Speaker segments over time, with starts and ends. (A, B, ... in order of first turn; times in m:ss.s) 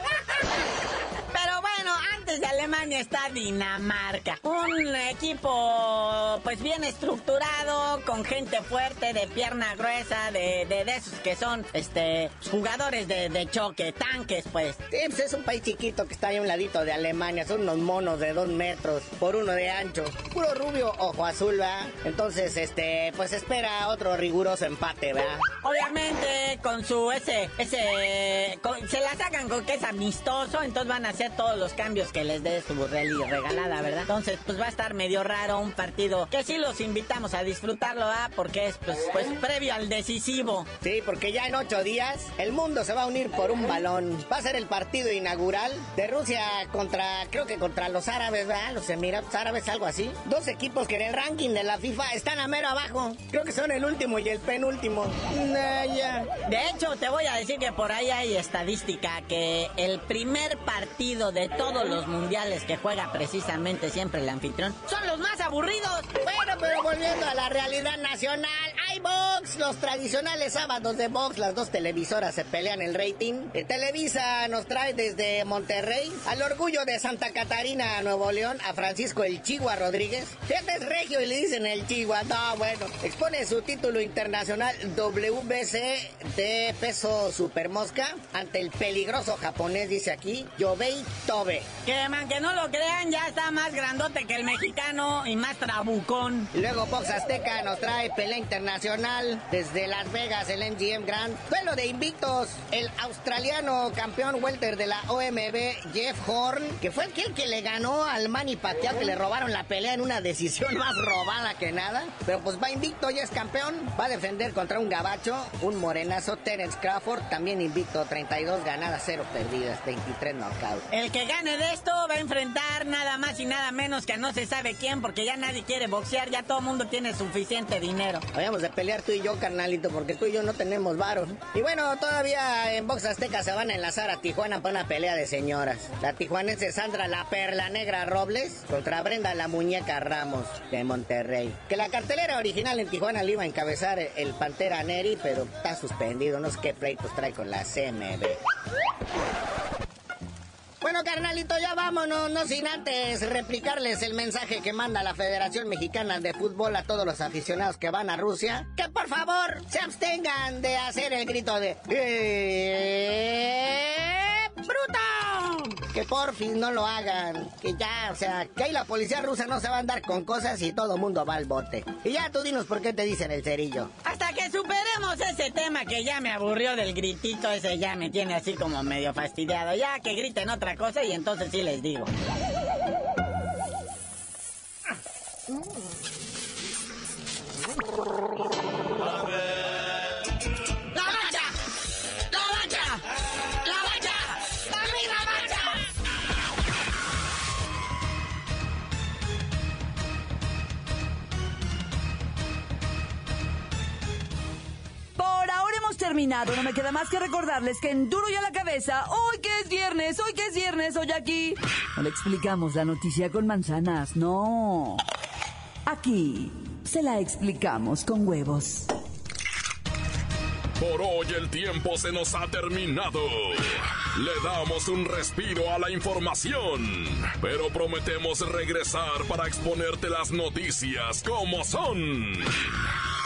0:01.3-0:14.8 A
0:14.9-0:25.4 B
0:25.6-0:40.7 A
0:40.8-0:56.3 B
0:56.4-1:06.1 A
1:06.2-1:31.7 B
1:31.8-1:36.5 A
1:36.5-2:00.8 B
2:00.9-2:08.2 A
2:08.3-2:28.4 B
2:30.8-2:53.9 B
2:54.0-3:02.1 A
3:11.0-3:11.4 A
3:12.3-3:13.0 A
3:13.7-3:15.6 A
3:25.2-3:35.0 C
3:35.8-3:38.9 C
3:40.8-3:52.9 D